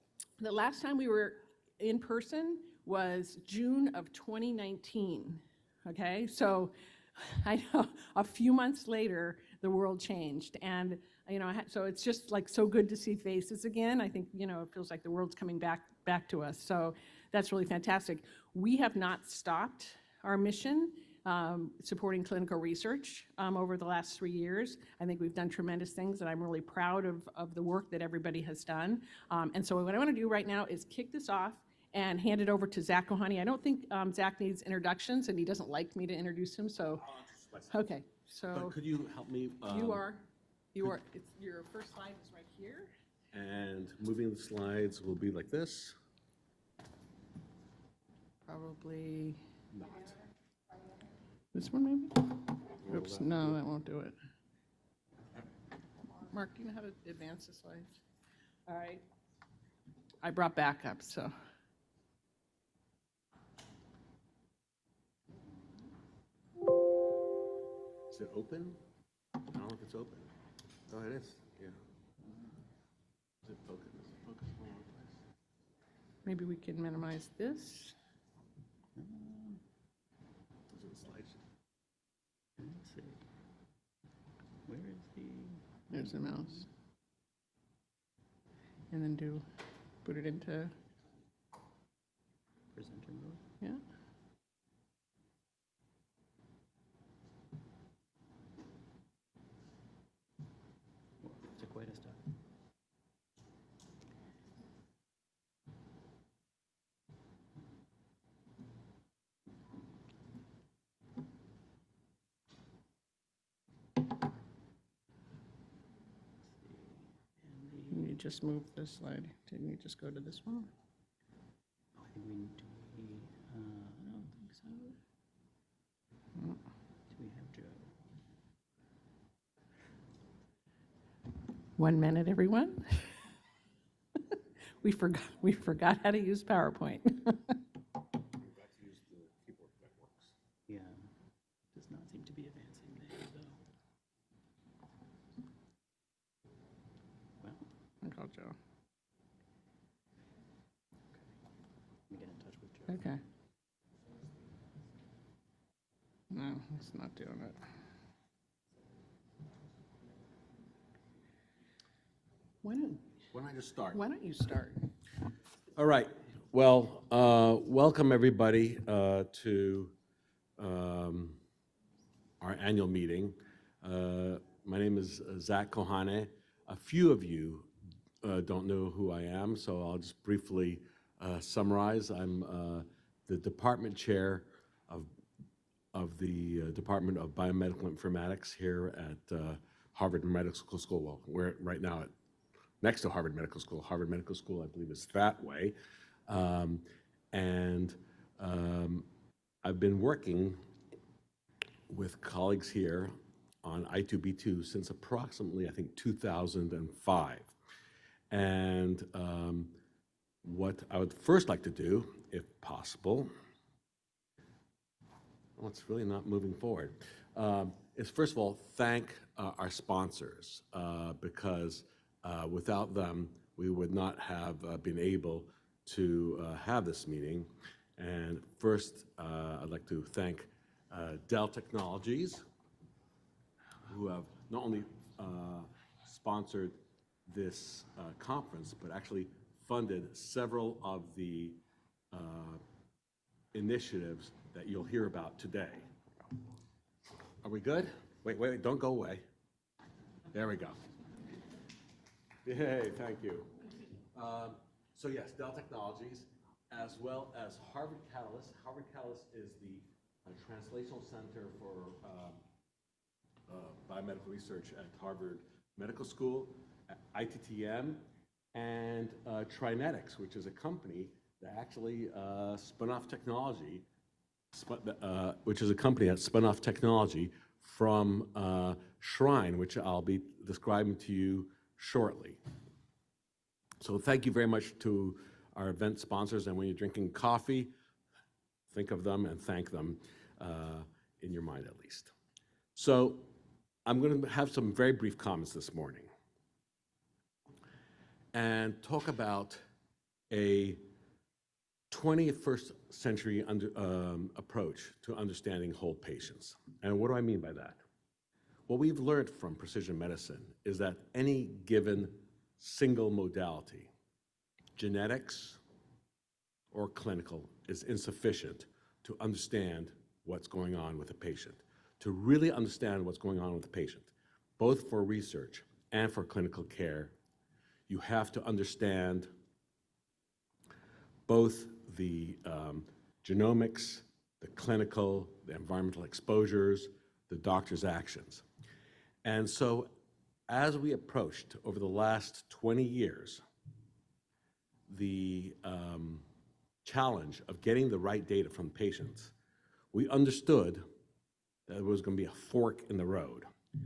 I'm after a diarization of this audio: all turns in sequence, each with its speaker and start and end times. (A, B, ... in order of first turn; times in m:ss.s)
0:00.4-0:37.0 A
0:37.0-0:37.7 B
0:37.7-0:38.8 A
0:38.5-0:40.0 B
0:39.7-0:42.9 A
0:43.3-0:46.0 B
0:48.5-0:49.4 A
0:51.5-0:54.1 A
0:52.9-0:53.5 B
0:56.3-0:58.0 A
0:58.7-0:59.0 A
1:00.2-1:01.3 A
1:08.1-1:08.8 B
1:09.5-1:10.3 B
1:10.9-1:11.8 B
1:13.4-1:15.2 B
1:16.2-1:18.0 A
1:19.0-1:19.6 C
1:20.7-1:21.4 B
1:22.6-1:23.2 C
1:24.6-1:26.5 C
1:25.9-1:26.7 A
1:28.9-1:29.4 A
1:30.0-1:30.7 A
1:32.7-1:33.4 C
1:41.2-1:42.3 C
1:56.4-1:58.2 C
1:57.9-2:00.7 A
2:02.0-2:05.0 C
2:07.1-2:07.9 C
2:11.8-2:13.1 A
2:14.8-2:17.5 A
2:18.4-2:20.3 B
2:20.7-2:21.1 C
2:21.7-2:23.6 C
2:28.0-2:28.5 A
2:32.1-2:33.1 C
2:32.9-2:33.2 A
2:36.3-2:37.6 A
2:42.6-2:43.1 A
2:43.3-2:44.0 B
2:43.9-2:44.8 A
2:45.8-2:49.9 B
2:50.6-2:51.4 B
2:52.4-2:57.7 B
2:58.2-3:05.1 B
3:05.9-3:12.1 B
3:12.8-3:15.7 B
3:16.3-3:19.0 B
3:19.6-3:20.6 B
3:21.9-3:23.1 B
3:23.6-3:27.5 B
3:28.3-3:29.7 B
3:30.4-3:33.3 B
3:35.6-3:52.4 B
3:53.8-4:01.6 B
4:02.1-4:02.6 B
4:03.5-4:05.8 B
4:07.4-4:09.2 B
4:10.3-4:10.8 B
4:12.4-4:13.5 B
4:14.1-4:22.4 B
4:23.5-4:28.0 B
4:28.5-4:33.8 B
4:34.5-4:42.4 B
4:43.8-4:47.7 B
4:48.7-4:52.1 B
4:52.8-4:53.3 B
4:53.8-4:56.1 B
4:58.3-4:59.6 B
5:00.3-5:00.8 B
5:01.9-5:07.8 B
5:08.7-5:13.9 B
5:14.8-5:15.6 B
5:16.7-5:27.1 B
5:27.9-5:29.3 B
5:31.3-5:38.4 B
5:39.2-5:39.9 B
5:40.5-5:43.4 B
5:44.9-5:46.2 B
5:46.8-5:49.3 B
5:49.9-5:50.8 B
5:51.7-5:53.5 B